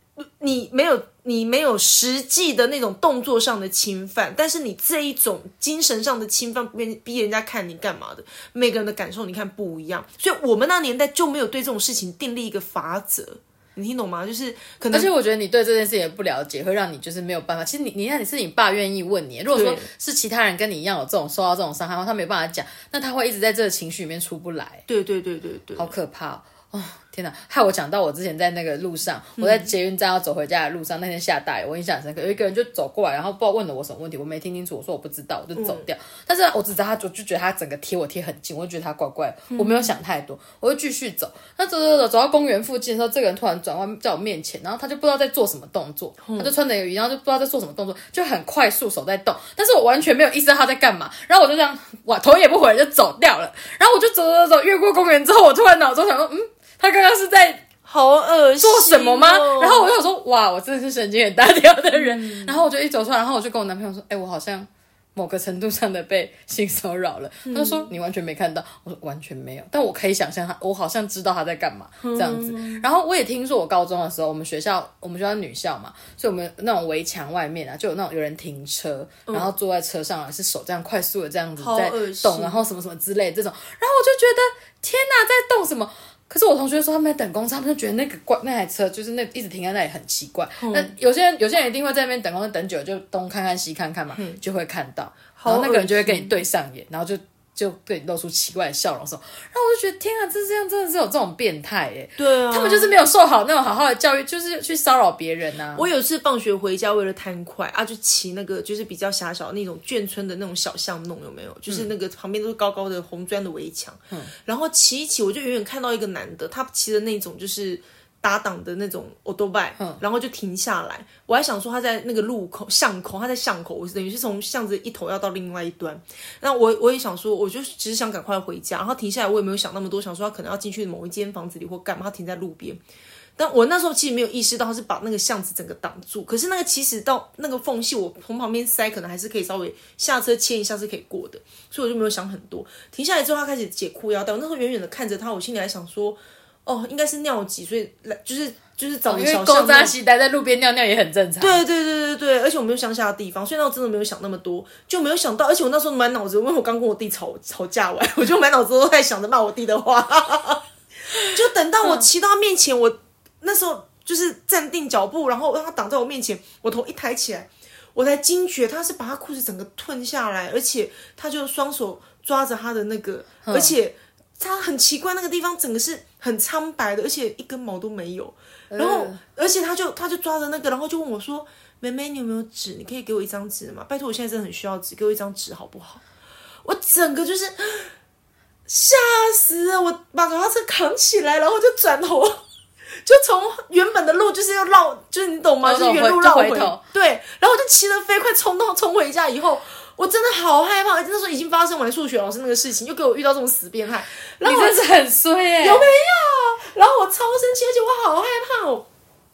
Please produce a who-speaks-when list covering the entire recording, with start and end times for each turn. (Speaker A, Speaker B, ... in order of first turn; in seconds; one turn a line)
Speaker A: 0.4-15.1
Speaker B: 14.9-24.8
Speaker A: 19.5-19.9
Speaker A: 24.9-25.9
Speaker B: 25.8-57.6
Speaker A: 29.4-29.7
Speaker A: 35.5-35.9
Speaker A: 39.5-39.9
Speaker A: 46.2-46.5
Speaker A: 57.8-59.9
Speaker B: 58.6-105.8
Speaker A: 61.9-62.6
Speaker A: 67.4-67.9
Speaker A: 72.0-72.8
Speaker A: 81.6-82.5
Speaker A: 90.6-90.9
Speaker A: 94.1-94.4
Speaker A: 95.3-96.3
Speaker A: 102.2-102.9
Speaker A: 105.7-132.8
Speaker A: 133.4-149.9
Speaker B: 149.1-151.6
Speaker A: 151.4-160.6
Speaker A: 161.2-186.0
Speaker B: 173.4-173.8
Speaker B: 178.7-179.2
Speaker A: 186.6-187.9
Speaker A: 188.7-192.4
Speaker A: 193.0-204.9
Speaker B: 195.6-196.8
Speaker B: 204.4-205.9
Speaker A: 205.6-208.9